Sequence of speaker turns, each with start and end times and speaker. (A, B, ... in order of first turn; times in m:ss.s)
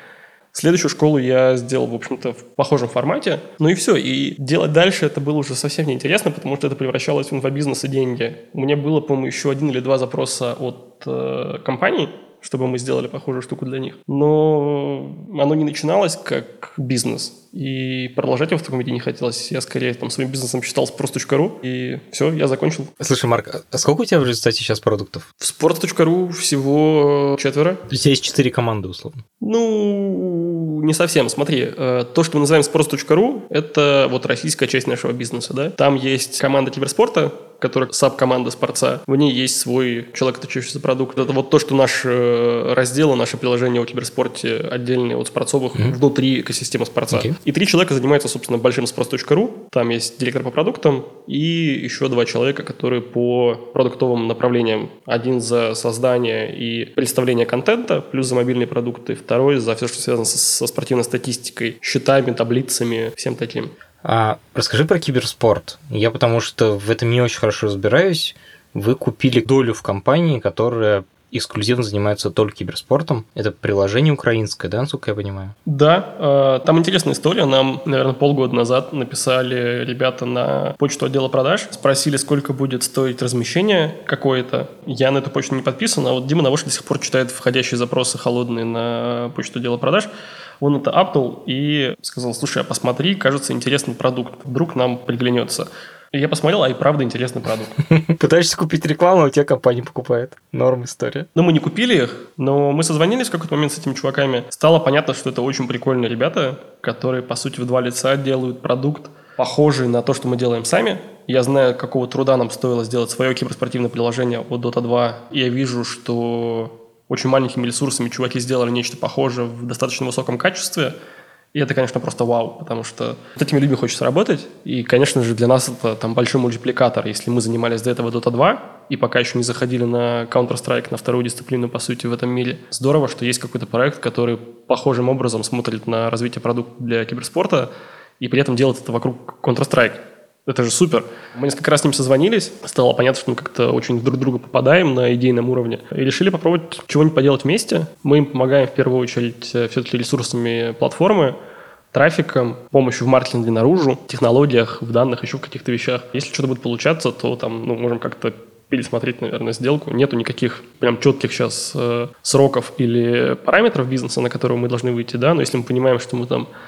0:00.5-0:22.9 A
0:23.0-0:25.3 B
0:25.4-0:27.8 A
0:27.9-0:29.2 B
0:29.4-1:03.7 A
0:47.1-0:47.4 B
1:04.0-1:15.6 B
1:15.6-1:30.1 A
1:30.6-1:37.8 A
1:37.8-1:41.3 B
1:41.4-2:00.9 A
2:01.5-2:31.4 A
2:31.9-2:46.5 A